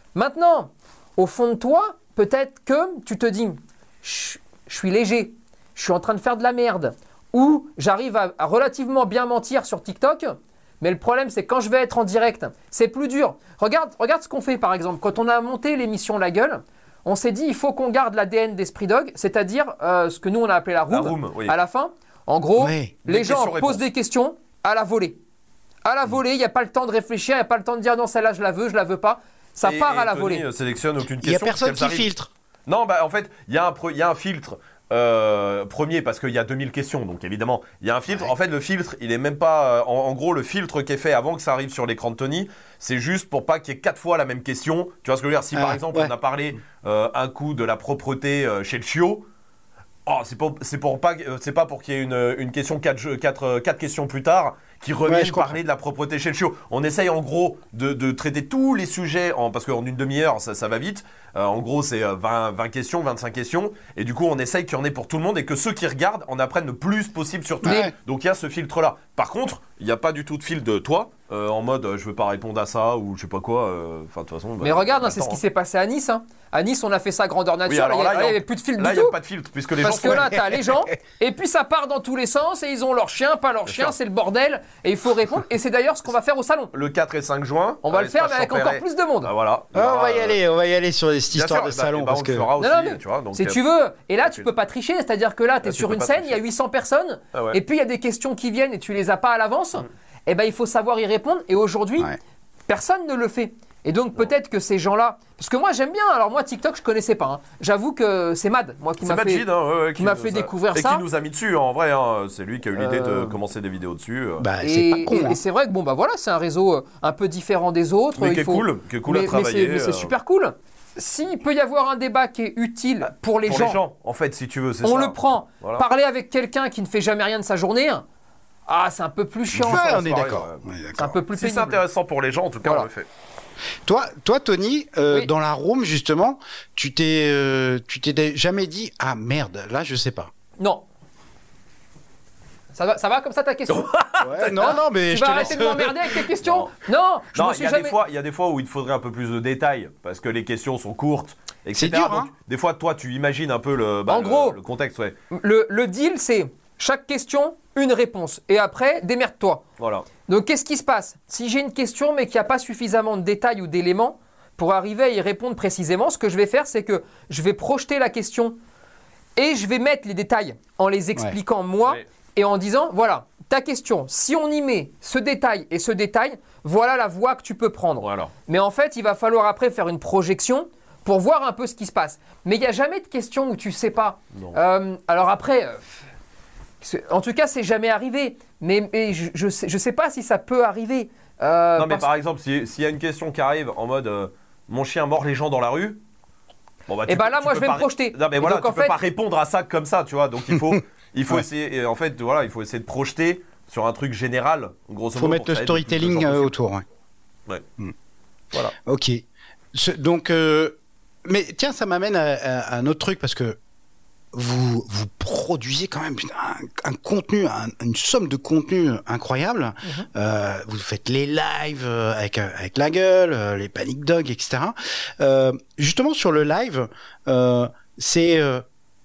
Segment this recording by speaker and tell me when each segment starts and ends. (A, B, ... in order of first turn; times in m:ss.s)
0:00.1-0:25.2 A
0:20.9-0:21.6 B
0:22.6-0:22.9 C
0:23.0-0:23.8 B
0:25.8-0:30.4 A
0:29.6-0:32.1 B
0:31.2-0:32.3 C
0:32.7-0:49.2 B
0:45.5-0:46.1 C
0:50.0-1:15.4 B
0:55.0-0:55.6 C
1:07.6-1:07.9 C
1:14.6-1:19.1 A
1:17.7-1:20.3 B
1:19.8-1:26.7 A
1:20.0-1:20.8 C
1:23.7-1:23.9 B
1:26.7-1:30.4 B
1:27.8-1:29.3 A
1:29.7-1:32.5 C
1:31.3-1:33.6 B
1:32.6-1:42.1 A
1:34.2-1:34.5 B
1:35.6-1:36.4 B
1:37.3-1:37.6 B
1:42.7-1:49.4 A
1:49.0-1:54.5 B
1:50.0-1:51.0 A
1:52.7-1:53.4 A
1:54.4-1:55.4 C
1:54.6-2:03.8 A
1:58.2-2:00.1 B
2:03.4-2:05.8 B
2:04.8-2:08.0 A
2:08.7-2:10.2 A
2:09.5-2:10.6 B
2:09.5-2:11.2 C
2:10.9-2:11.8 A
2:11.4-2:13.1 B
2:13.8-2:20.3 C
2:20.6-2:20.8 A
2:22.7-2:28.0 A
2:23.7-2:24.7 B
2:24.2-2:26.1 C
2:26.4-2:26.7 B
2:27.3-2:35.2 B
2:31.7-2:32.3 C
2:34.1-2:34.6 A
2:35.3-2:39.6 A
2:39.8-2:40.1 B
2:40.2-2:48.6 A
2:49.4-3:06.0 A
2:58.0-2:58.3 B
3:06.8-3:12.1 A
3:11.8-3:16.0 B
3:16.9-3:26.5 B
3:17.1-3:19.0 A
3:25.2-3:26.8 C
3:28.7-3:33.6 C
3:34.3-3:48.6 C